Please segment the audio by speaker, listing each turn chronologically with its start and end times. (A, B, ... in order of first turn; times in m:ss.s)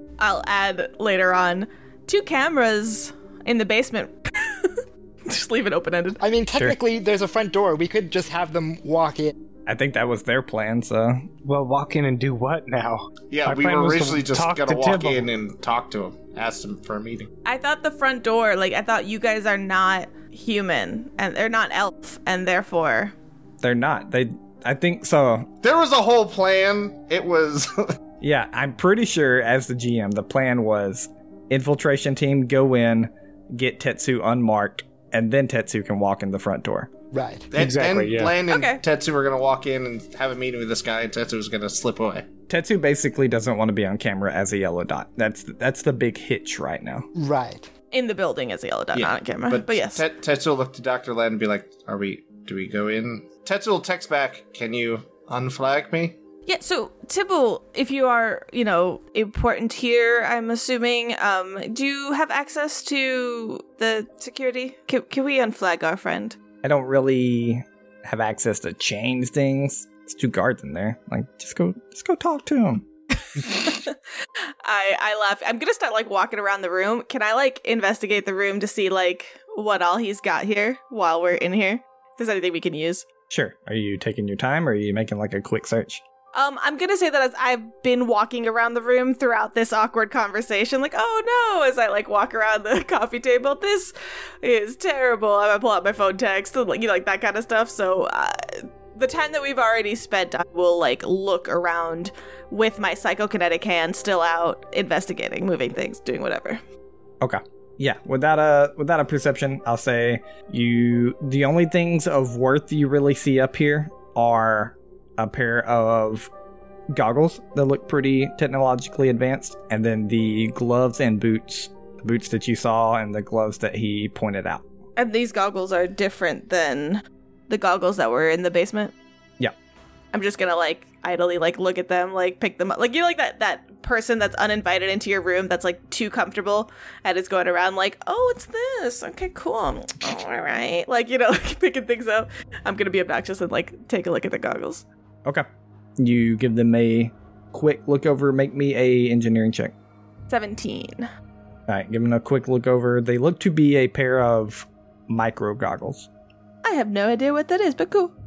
0:00.2-0:06.2 A
0:06.2-0:09.4 B
0:09.7-0:11.3 C
0:11.4-0:15.3 D
0:13.3-0:17.3 E
0:17.4-0:23.1 A
0:23.6-0:25.5 C
0:25.6-0:28.0 E
0:28.2-0:36.9 C
0:37.1-0:37.5 B
0:37.5-0:42.3 E
0:37.6-0:38.4 D
0:38.5-0:38.8 A
0:42.5-0:47.1 C
0:47.2-0:47.7 B
0:47.9-0:50.0 A
0:48.9-0:56.2 E
0:56.5-1:06.4 A
1:06.6-1:12.9 C
1:13.3-1:14.0 A
1:14.6-1:23.0 A
1:23.3-1:26.0 C
1:26.3-1:46.6 A
1:47.2-1:56.3 C
1:56.9-2:04.6 C
2:05.0-2:09.0 A
2:10.1-2:24.8 A
2:26.0-2:29.7 C
2:30.3-2:31.1 A
2:31.7-2:36.1 C
2:36.6-2:38.1 A